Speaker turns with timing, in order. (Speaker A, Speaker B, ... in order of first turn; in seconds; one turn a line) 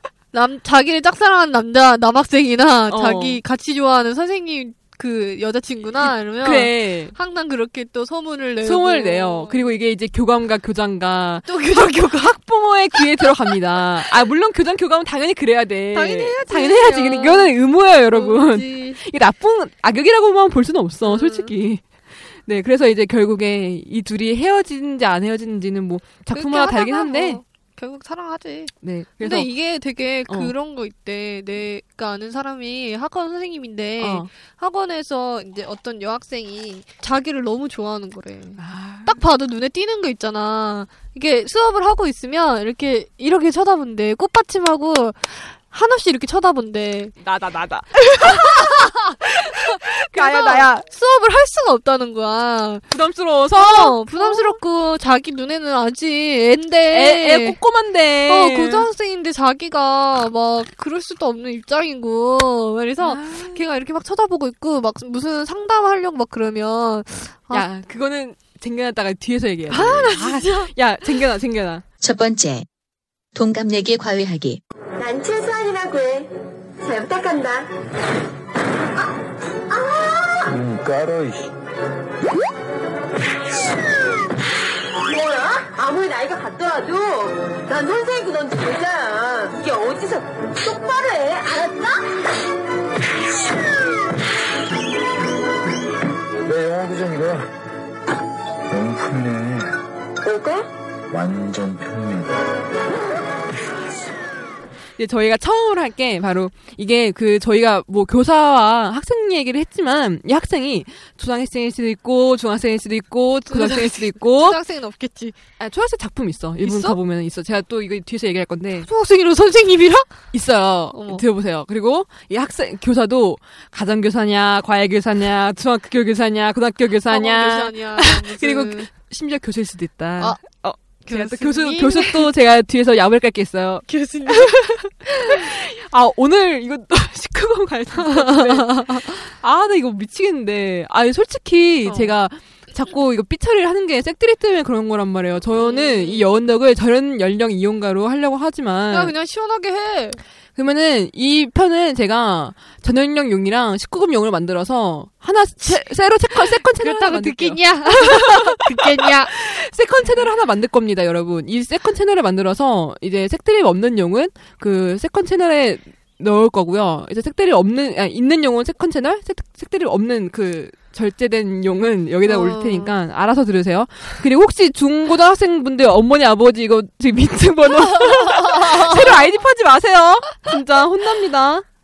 Speaker A: 0.3-9.6
Speaker B: 2.9-3.4
Speaker B: 6.4-7.2
Speaker B: 8.6-27.4
Speaker A: 11.5-12.3
Speaker A: 15.9-17.5
Speaker A: 18.1-19.0
Speaker A: 21.1-21.5
Speaker A: 26.3-47.1
Speaker B: 28.8-29.5
Speaker B: 30.3-30.5
Speaker B: 34.0-34.3
Speaker B: 38.6-39.2
Speaker B: 47.2-50.7
Speaker A: 48.2-52.9
Speaker B: 52.9-54.6
Speaker A: 53.6-57.6
Speaker B: 56.9-58.9
Speaker A: 58.3-67.7
Speaker B: 63.0-63.6
Speaker B: 67.5-71.8
Speaker A: 69.7-70.7
Speaker C: 72.0-72.7
Speaker C: 73.3-74.6
Speaker D: 75.0-77.7
Speaker D: 79.7-80.5
Speaker E: 80.5-81.5
Speaker D: 85.0-92.2
Speaker E: 96.5-97.5
Speaker E: 98.7-99.7
Speaker D: 100.2-100.7
Speaker E: 101.1-102.3
Speaker B: 105.0-114.6
Speaker A: 113.5-115.4
Speaker B: 115.6-118.9
Speaker A: 116.6-117.0
Speaker A: 118.9-120.1
Speaker B: 120.3-149.1
Speaker A: 120.9-121.2
Speaker A: 127.1-128.9
Speaker A: 131.1-132.3
Speaker A: 133.9-134.6
Speaker A: 135.1-135.4
Speaker A: 138.0-139.2
Speaker A: 141.8-142.1
Speaker A: 145.6-146.3
Speaker A: 148.9-150.2
Speaker B: 150.6-181.7
Speaker A: 155.6-159.3
Speaker A: 172.3-172.9
Speaker A: 177.8-179.2